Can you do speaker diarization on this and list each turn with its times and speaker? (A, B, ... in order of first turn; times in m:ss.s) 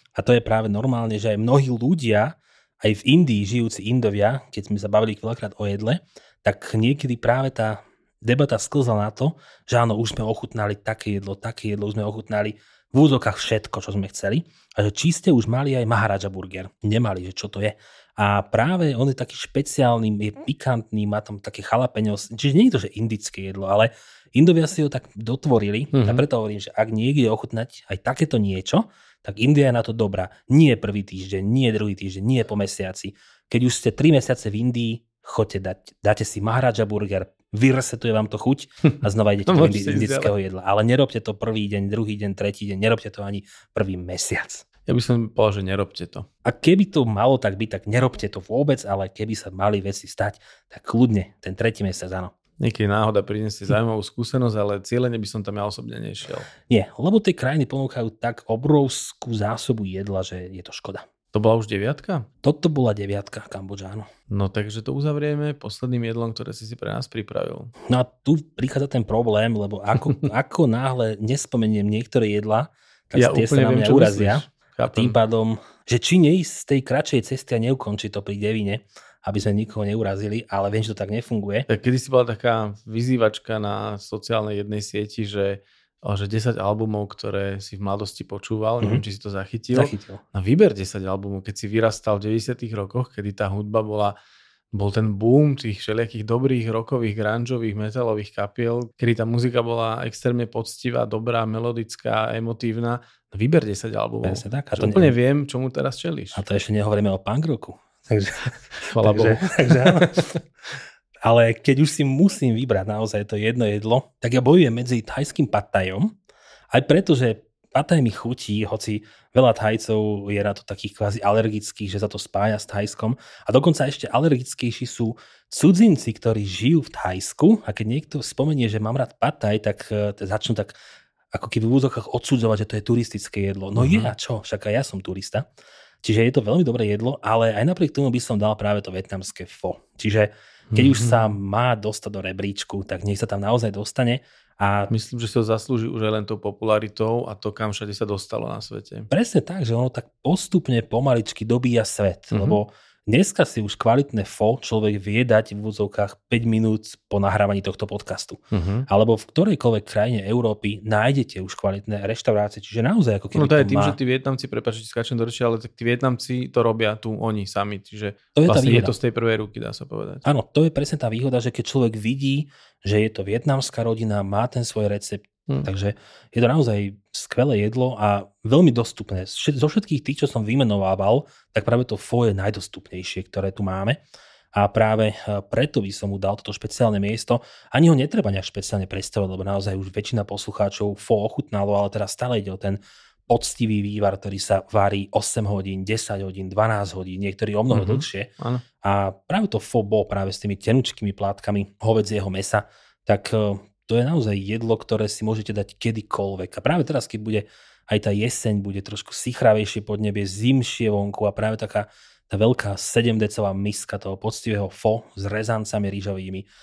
0:00.2-0:44.7 A
0:25.9-0:26.2 B
0:39.5-0:40.3 B
0:44.9-0:46.3 B
0:46.4-0:52.3 A
0:52.6-0:56.5 B
0:56.7-1:01.1 A
1:01.3-1:02.3 B
1:02.4-1:04.1 A
1:04.3-1:07.7 B
1:07.9-1:21.7 A
1:13.2-1:15.2 B
1:21.7-1:34.2 B
1:29.7-1:30.2 A
1:34.7-1:46.4 B
1:44.2-1:45.1 A
1:46.3-1:50.3 A
1:48.9-1:50.4 B
1:51.2-1:56.1 A
1:56.7-2:10.8 A
2:11.3-2:15.5 A
2:13.8-2:14.1 B
2:16.0-2:24.9 A
2:20.7-2:21.3 B
2:24.9-2:29.1 B
2:29.1-2:44.0 A
2:32.3-2:32.6 B
2:38.5-2:38.9 B
2:43.4-2:50.2 B
2:48.4-2:48.9 A
2:50.2-3:04.0 A
3:04.5-3:18.3 A
3:17.7-3:18.6 B
3:18.8-3:36.5 A